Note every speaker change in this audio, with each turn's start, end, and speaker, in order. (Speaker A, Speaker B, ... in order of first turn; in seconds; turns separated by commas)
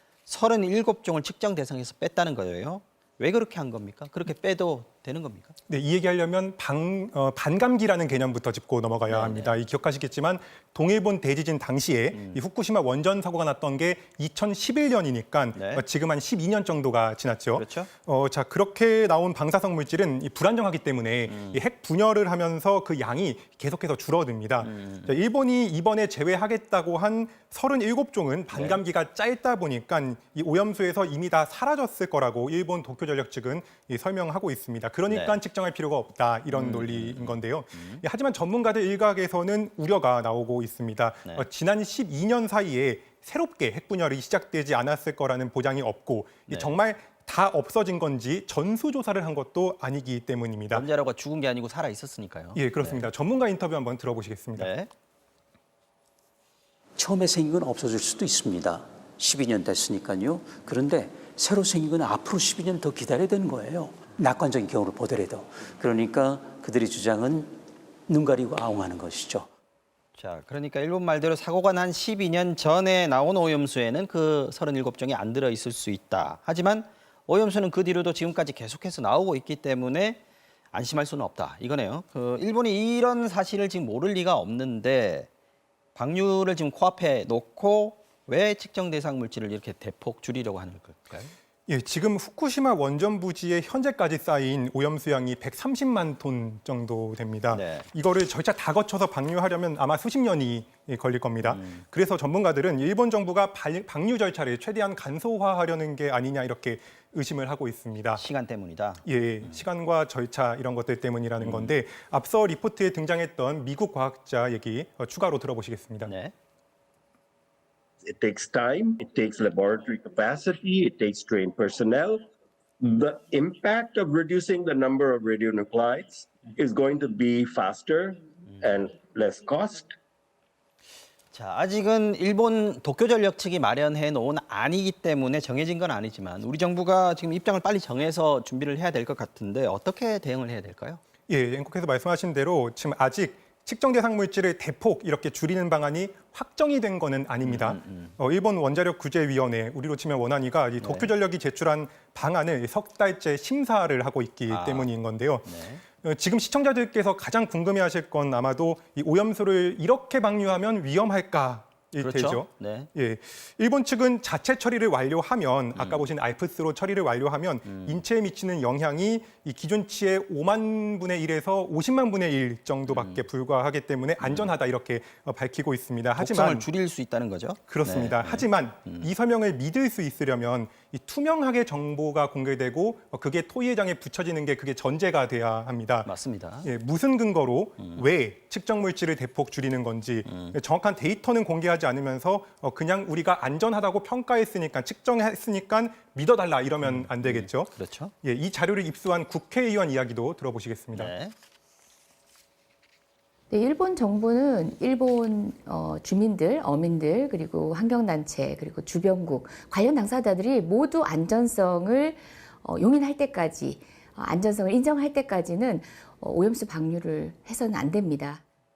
Speaker A: 0.3-5.5, Speaker B: 5.7-50.9, Speaker A: 9.1-9.5, Speaker A: 12.1-12.4, Speaker A: 15.5-15.8, Speaker A: 17.5-17.9, Speaker A: 21.2-21.6, Speaker A: 24.6-25.2, Speaker A: 28.5-28.8, Speaker A: 35.1-35.4, Speaker A: 36.5-38.0, Speaker A: 46.5-46.7, Speaker A: 50.7-53.1, Speaker B: 52.5-54.7, Speaker A: 54.5-54.9, Speaker C: 57.0-69.5, Speaker A: 70.1-80.2, Speaker A: 80.7-85.3, Speaker A: 85.9-91.3, Speaker B: 91.7-108.2, Speaker A: 97.5-97.9, Speaker A: 101.4-101.8, Speaker A: 108.1-109.6, Speaker B: 109.0-116.1, Speaker A: 111.4-111.8, Speaker A: 116.0-116.3, Speaker D: 118.0-122.3, Speaker D: 122.8-129.9, Speaker A: 131.3-141.0, Speaker B: 141.3-155.5, Speaker A: 147.4-148.1, Speaker A: 150.8-151.1, Speaker A: 154.5-154.9, Speaker A: 155.4-155.8, Speaker B: 156.0-176.7, Speaker A: 162.0-162.9, Speaker A: 165.8-166.1, Speaker A: 167.7-168.0, Speaker A: 172.9-173.2, Speaker A: 174.2-174.5, Speaker A: 176.2-179.1, Speaker B: 177.7-186.1, Speaker A: 186.0-186.7, Speaker B: 186.6-197.7, Speaker A: 187.8-188.0, Speaker A: 190.2-190.6, Speaker A: 196.8-198.1, Speaker B: 198.2-201.1, Speaker A: 200.9-201.3, Speaker E: 203.5-218.4